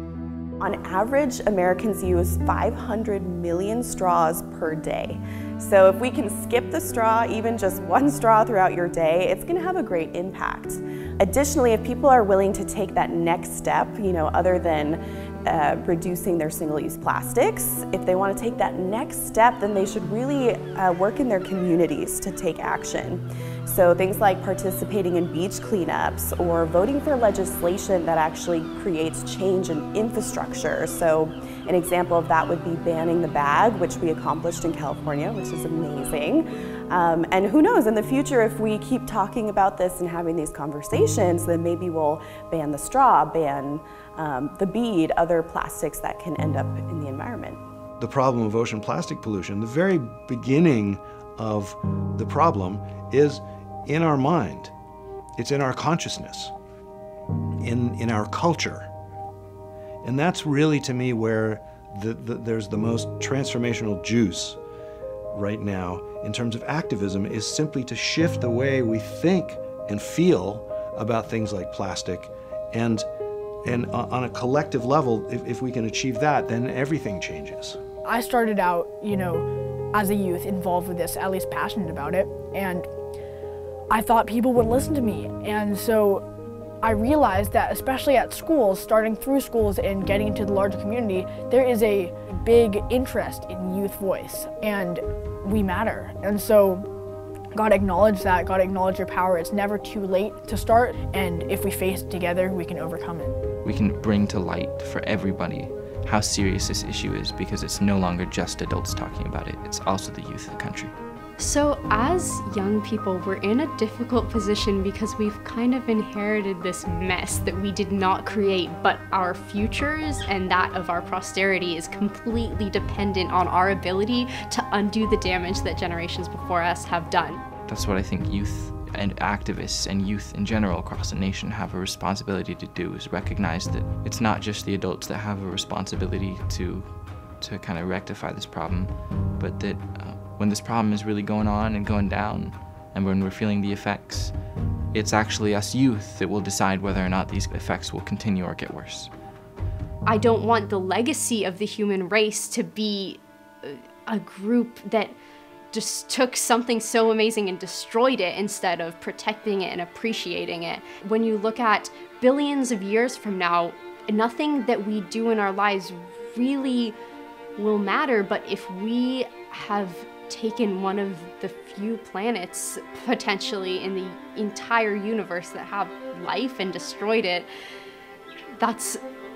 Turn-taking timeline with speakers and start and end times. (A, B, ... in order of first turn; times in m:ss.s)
0:00.6-0:47.6 A
0:48.0-0:54.7 B
0:55.4-0:56.5 B
0:57.6-0:58.9 B
1:00.0-1:04.6 B
1:05.3-1:13.1 B
1:13.6-1:17.8 B
1:18.0-1:22.9 C
1:23.9-1:26.2 C
1:26.8-1:36.9 C
1:37.5-1:43.4 C
1:43.6-1:50.9 D
1:51.4-2:07.4 E
2:07.6-2:24.4 D
2:24.9-2:29.1 D
2:30.0-2:35.2 E
2:35.7-2:47.0 E
2:47.6-2:57.5 E
2:58.6-2:59.0 E